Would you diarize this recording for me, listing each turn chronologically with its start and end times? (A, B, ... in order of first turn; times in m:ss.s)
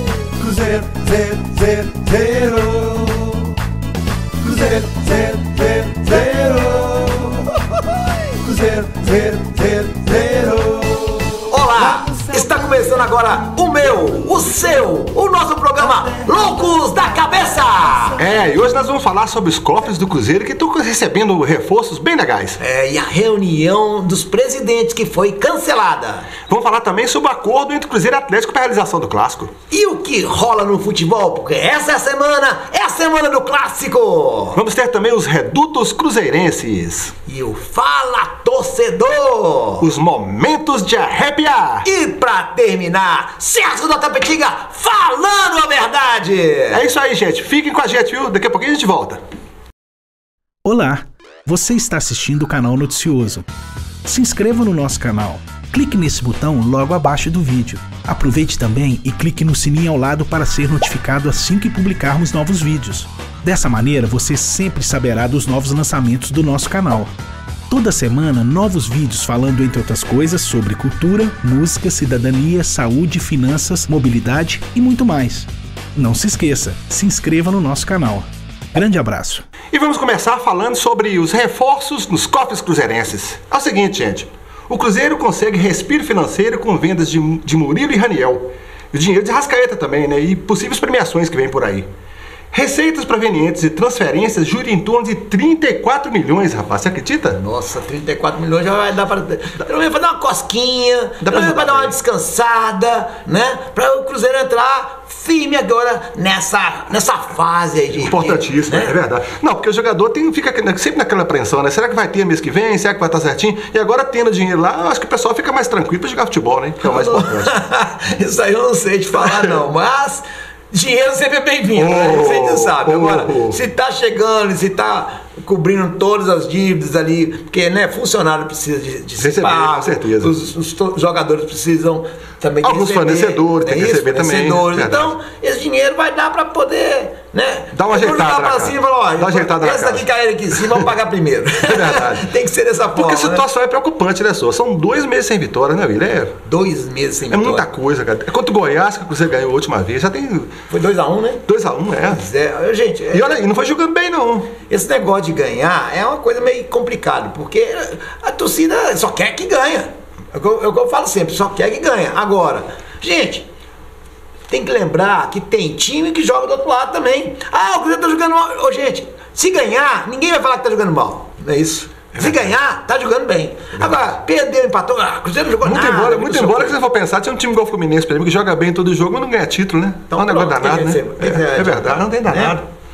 0:00.9-0:03.0 A
0:04.5-0:07.0 A
0:08.5-0:10.7 A
0:11.5-0:18.2 B
0:18.2-0:22.6 C
0:22.6-0:26.3 B
0:26.5-0:29.5 C
0:29.7-0:34.6 B
0:34.5-0:37.1 C
0:37.3-0:39.8 B
0:39.8-0:41.8 C
0:41.8-0:46.8 B
0:46.7-0:49.2 C
0:50.6-0:53.4 D
0:54.0-1:07.1 D
1:07.7-1:19.4 D
1:19.7-1:31.9 C
1:32.5-1:37.4 C
1:37.3-1:48.9 B
1:41.2-1:41.9 C
1:48.0-1:57.5 C
1:56.8-2:23.4 B
1:59.1-1:59.6 C
2:01.7-2:03.6 C
2:09.2-2:10.3 C
2:12.6-2:15.1 C
2:17.7-2:20.9 C
2:21.6-2:22.2 C
2:22.9-2:26.4 C
2:26.4-2:27.6 B
2:27.3-2:30.5 C
2:30.7-2:31.4 B
2:31.5-2:32.2 C
2:32.1-2:33.4 B
2:33.1-2:34.5 C
2:34.7-2:43.4 B
2:44.5-2:56.8 B
2:52.2-2:52.5 C
2:55.6-3:02.6 C
3:00.1-3:02.6 B